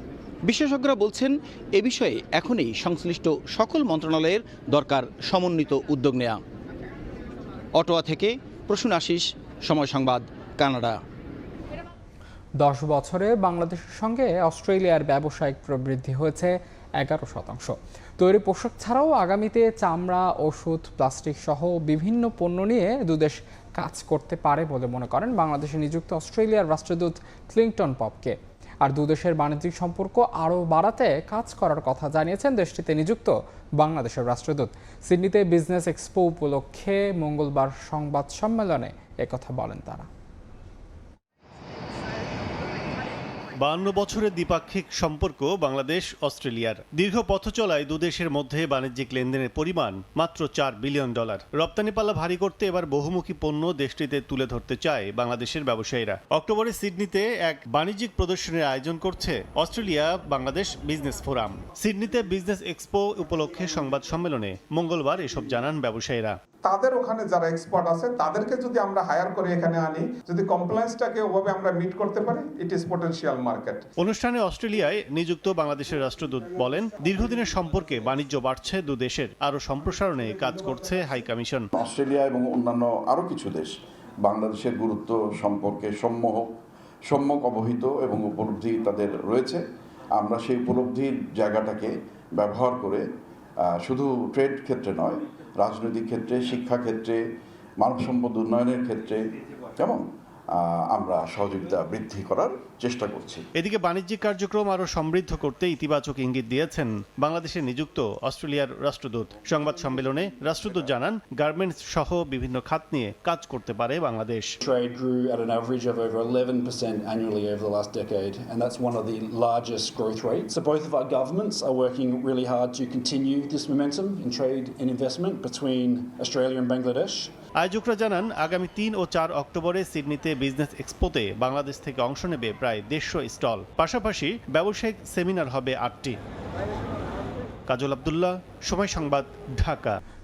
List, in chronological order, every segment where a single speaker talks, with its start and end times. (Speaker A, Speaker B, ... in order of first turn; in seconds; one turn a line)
Speaker A: 0.5-6.4
Speaker A: 7.8-11.0
Speaker B: 12.6-40.1
Speaker C: 43.6-66.3
Speaker D: 66.7-73.8
Speaker C: 74.0-81.7
Speaker E: 81.8-83.7
Speaker E: 84.2-86.4
Speaker E: 87.1-89.6
Speaker E: 90.2-93.0
Speaker E: 93.8-97.2
Speaker E: 97.8-99.2
Speaker E: 99.8-100.0
Speaker E: 100.5-103.4
Speaker C: 103.5-114.5
Speaker F: 114.6-127.3
Speaker C: 127.6-136.2
Speaker C: 137.7-140.0